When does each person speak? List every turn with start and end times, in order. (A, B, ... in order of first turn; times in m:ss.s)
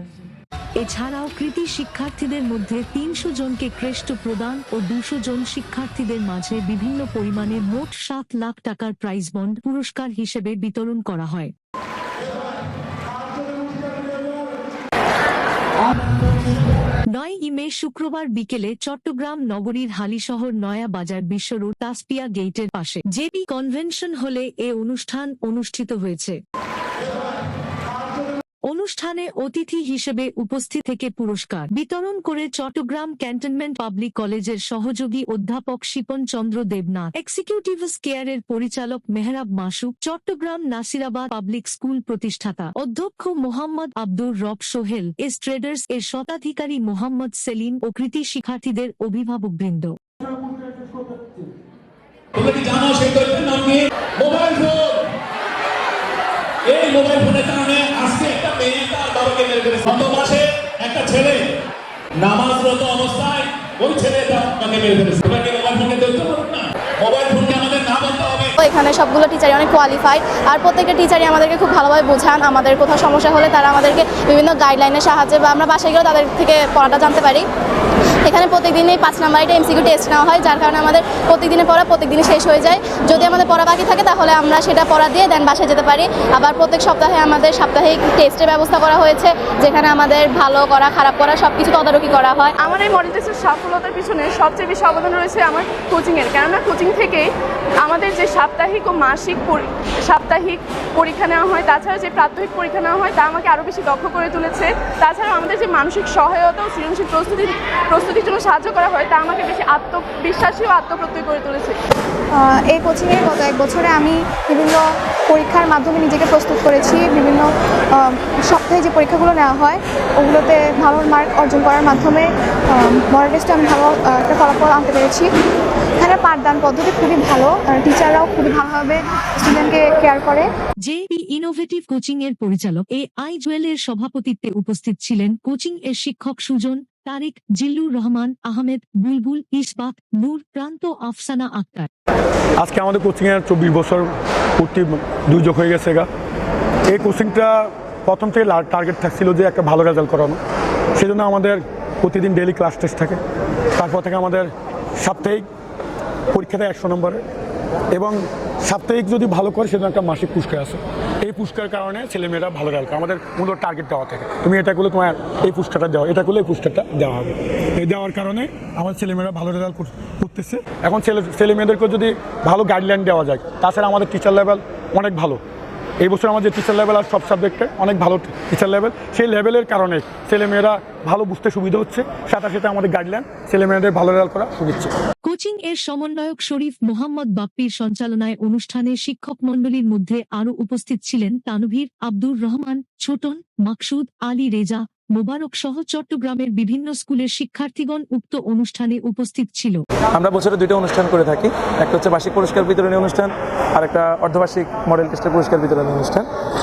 0:00.8-0:11.5 A
0:17.1-0:26.4 A
0:28.6-0:50.0 A
0:52.3-0:55.0 B
0:56.7-1:01.5 B
1:02.2-1:08.5 B
1:08.6-1:17.4 C
1:18.2-1:32.5 C
1:32.6-1:37.3 D
1:37.8-1:51.8 D
1:52.3-2:05.3 E
2:06.0-2:10.5 E
2:10.8-2:21.9 A
2:22.6-2:26.1 F
2:26.9-2:30.4 F
2:31.0-2:33.2 F
2:33.8-2:35.4 F
2:36.3-2:37.2 F
2:37.9-2:55.4 F
2:56.0-3:04.9 F
3:05.2-3:19.8 A
3:20.1-3:26.3 G